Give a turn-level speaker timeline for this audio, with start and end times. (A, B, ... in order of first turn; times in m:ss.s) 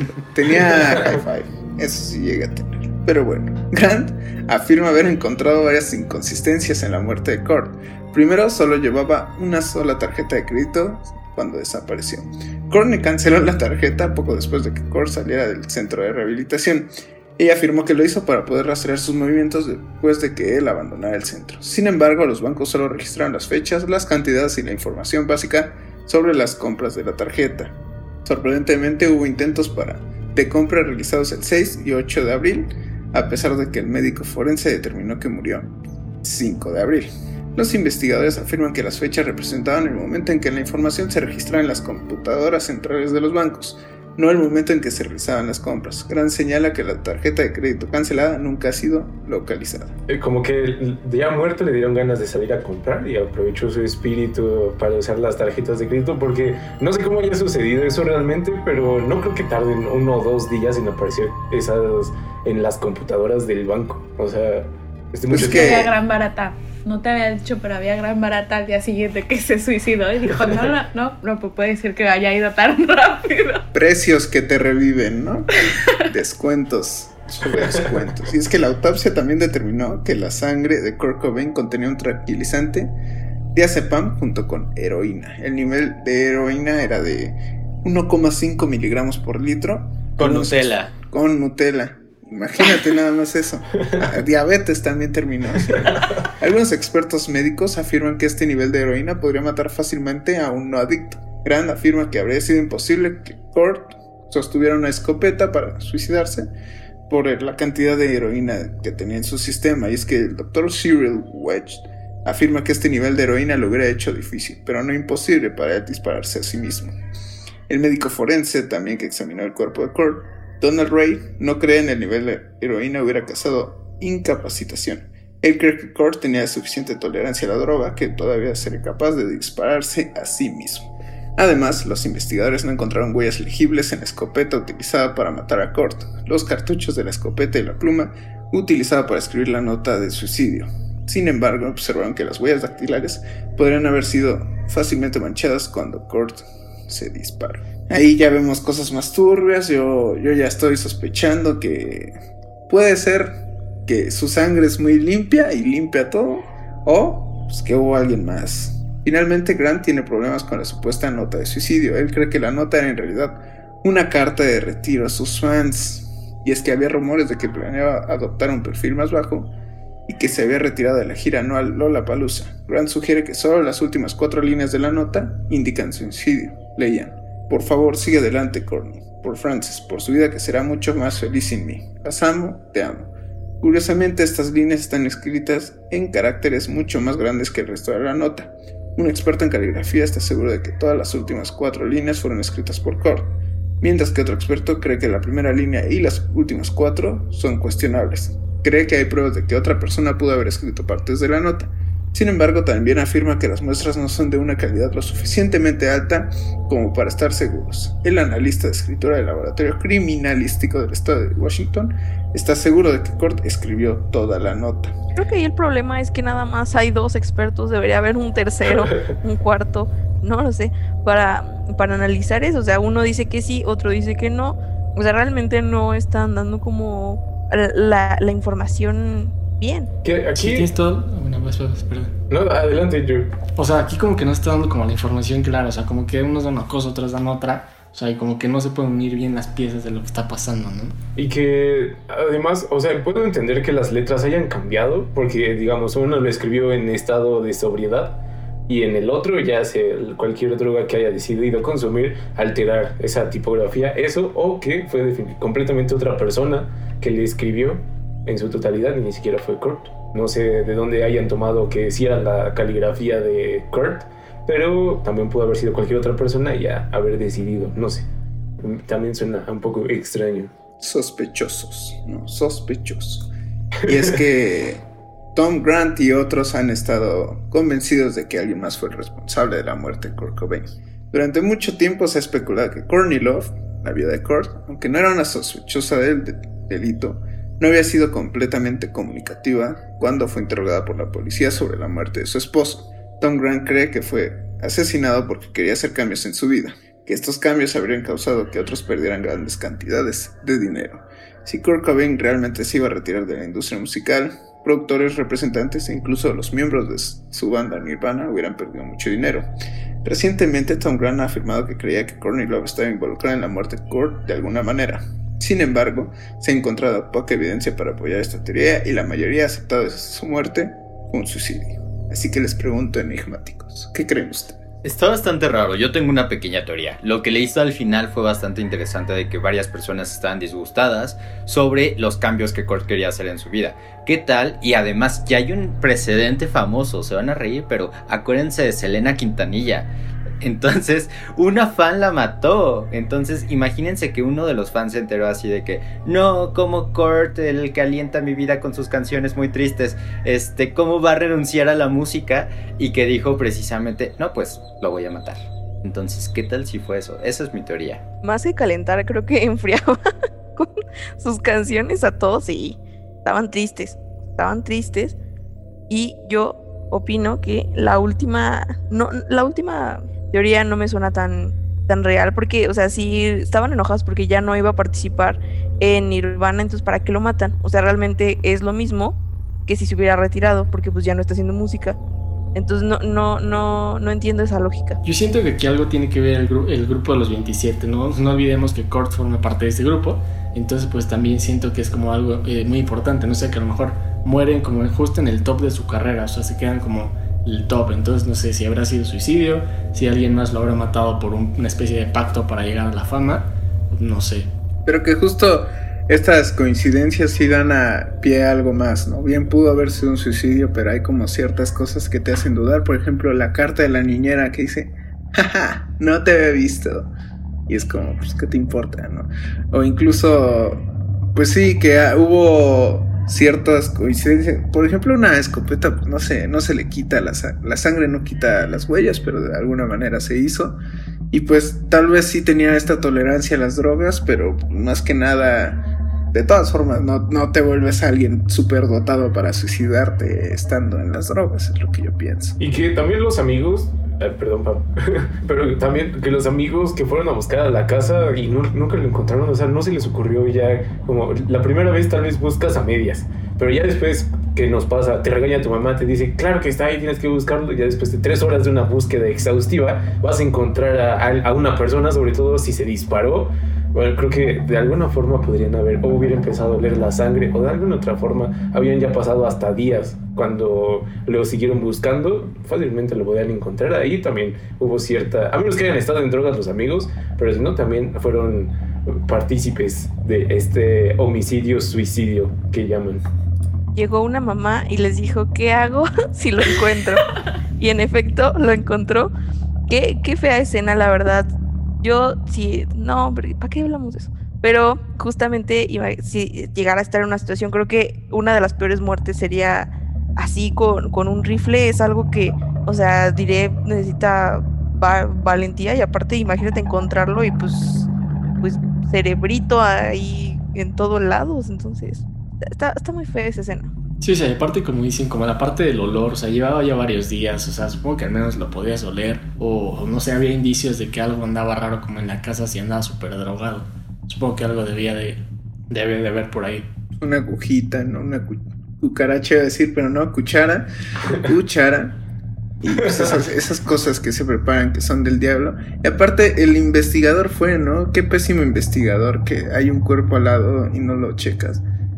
0:00.3-0:35.7 A
0:36.2-0:50.0 A
0:50.1-1:05.9 B
1:05.3-1:06.0 A
1:05.3-1:13.6 C
1:13.7-1:22.9 A
1:15.6-1:16.0 C
1:17.5-1:17.8 B
1:23.5-1:46.5 A
1:30.2-1:30.9 D
1:35.8-1:36.2 B
1:47.1-1:56.9 A
1:57.7-2:32.1 A
2:32.7-2:49.5 A
2:50.1-3:03.1 A
3:03.6-3:34.9 A
3:35.2-3:49.9 E
3:50.0-3:50.7 B
3:50.4-3:52.1 F
3:52.3-3:53.3 B
3:53.6-4:01.0 F
4:01.2-4:28.1 B
4:28.6-4:30.5 B
4:30.8-4:33.3 A
4:33.9-4:34.8 A
4:35.4-5:09.5 A
5:10.0-5:24.6 A
5:24.8-5:39.9 D
5:40.4-5:58.0 D
5:58.2-6:00.0 E
6:00.6-6:05.2 E
6:05.9-6:22.0 E
6:22.6-6:25.0 E
6:25.0-6:44.5 F
6:44.9-6:57.1 A
6:57.7-7:10.8 A
7:11.3-7:15.8 A
7:16.3-7:22.6 A
7:22.6-8:03.2 B
8:03.9-8:07.2 E
8:07.8-8:09.3 E
8:09.9-8:28.1 E
8:28.6-8:33.9 E
8:34.2-8:46.9 F
8:47.2-8:52.2 A
8:52.8-9:01.8 A
8:53.0-8:53.4 B